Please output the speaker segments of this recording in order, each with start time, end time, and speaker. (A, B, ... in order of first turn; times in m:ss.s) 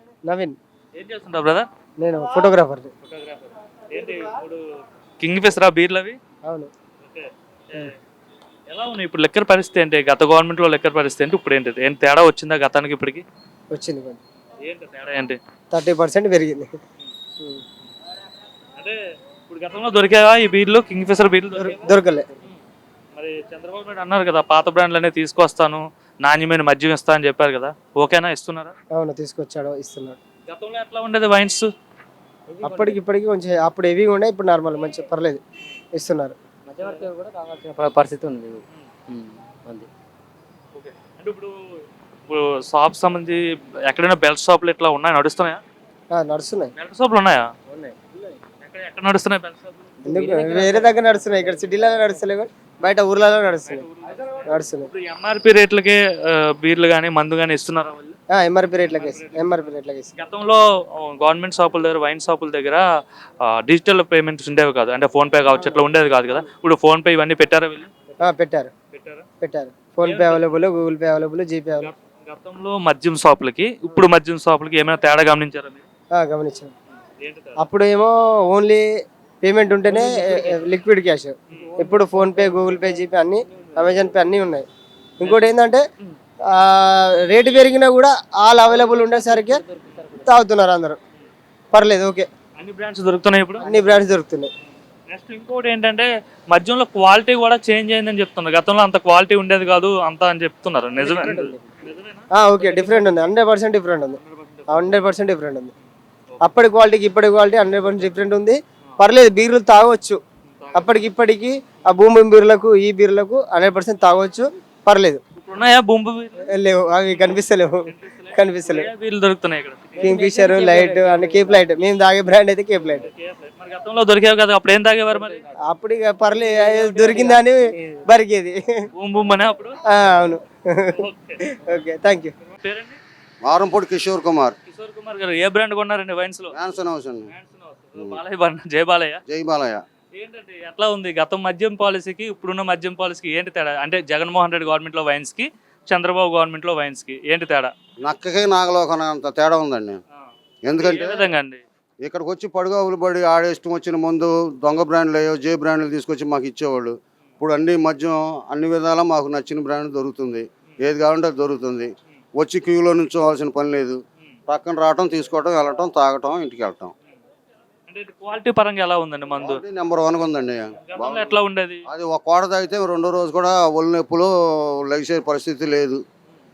0:00.2-0:00.6 A
0:01.0-0:01.7 B
0:02.0-0:02.9 A
0:03.0-0:04.6 B
0:05.2-0:06.2 B
0:07.0-0:07.9 B
0:08.7-0:13.2 B
0:13.7-0:14.2 A
0:14.6-0:15.4 B
0:15.7-0:16.7 A
0:19.5-0:21.8 B
0:21.6-0:22.3 A
0:23.1-0:28.7 B
0:28.9-0:30.2 A
0:30.5-0:31.7 B
0:32.5-0:33.0 C
0:32.6-0:35.4 A
0:36.0-0:36.3 A
0:36.7-0:39.9 C
0:40.7-0:41.5 B
0:42.2-0:45.6 B
0:46.1-0:46.7 A
0:46.8-0:47.5 B
0:48.6-0:49.7 B
0:50.0-0:51.0 C
0:50.0-0:53.8 A
0:53.6-0:58.2 B
0:54.5-0:54.9 A
0:58.3-1:00.1 A
0:58.9-1:02.9 B
1:03.4-1:07.9 B
1:08.2-1:08.7 A
1:08.9-1:09.2 B
1:09.4-1:11.9 A
1:10.0-1:10.4 B
1:11.8-1:15.9 B
1:16.2-1:16.7 A
1:17.2-1:17.6 B
1:17.6-1:18.8 A
1:19.4-1:24.7 A
1:19.9-1:20.5 C
1:21.7-1:23.0 C
1:23.5-1:24.0 C
1:25.2-1:25.8 A
1:26.5-1:29.6 A
1:28.6-1:30.3 C
1:30.2-1:31.0 A
1:31.7-1:32.3 A
1:32.6-1:33.7 B
1:33.6-1:34.1 C
1:33.6-1:34.5 A
1:35.1-1:43.1 B
1:41.0-1:41.6 A
1:42.4-1:44.2 A
1:44.2-1:44.8 B
1:44.7-1:45.7 A
1:46.4-1:50.2 A
1:50.4-1:50.9 B
1:50.7-1:55.2 A
1:55.4-1:56.4 B
1:56.5-1:57.8 A
1:57.2-2:00.1 B
1:58.3-1:58.9 A
2:00.0-2:01.7 C
2:00.0-2:03.0 A
2:03.0-2:05.4 B
2:05.7-2:08.6 A
2:06.6-2:08.0 C
2:08.9-2:09.8 B
2:09.9-2:12.3 A
2:10.9-2:11.4 B
2:12.5-2:13.0 B
2:13.4-2:14.5 D
2:14.7-2:16.5 B
2:16.5-2:17.3 D
2:17.3-2:19.2 B
2:19.3-2:19.8 D
2:20.1-2:27.7 B
2:28.0-2:30.0 D
2:30.6-2:31.2 D
2:30.8-2:31.6 B
2:32.0-2:46.9 D
2:47.9-2:49.6 B
2:49.4-2:51.3 D
2:50.8-2:51.8 B
2:51.9-2:54.3 D
2:54.8-2:56.0 D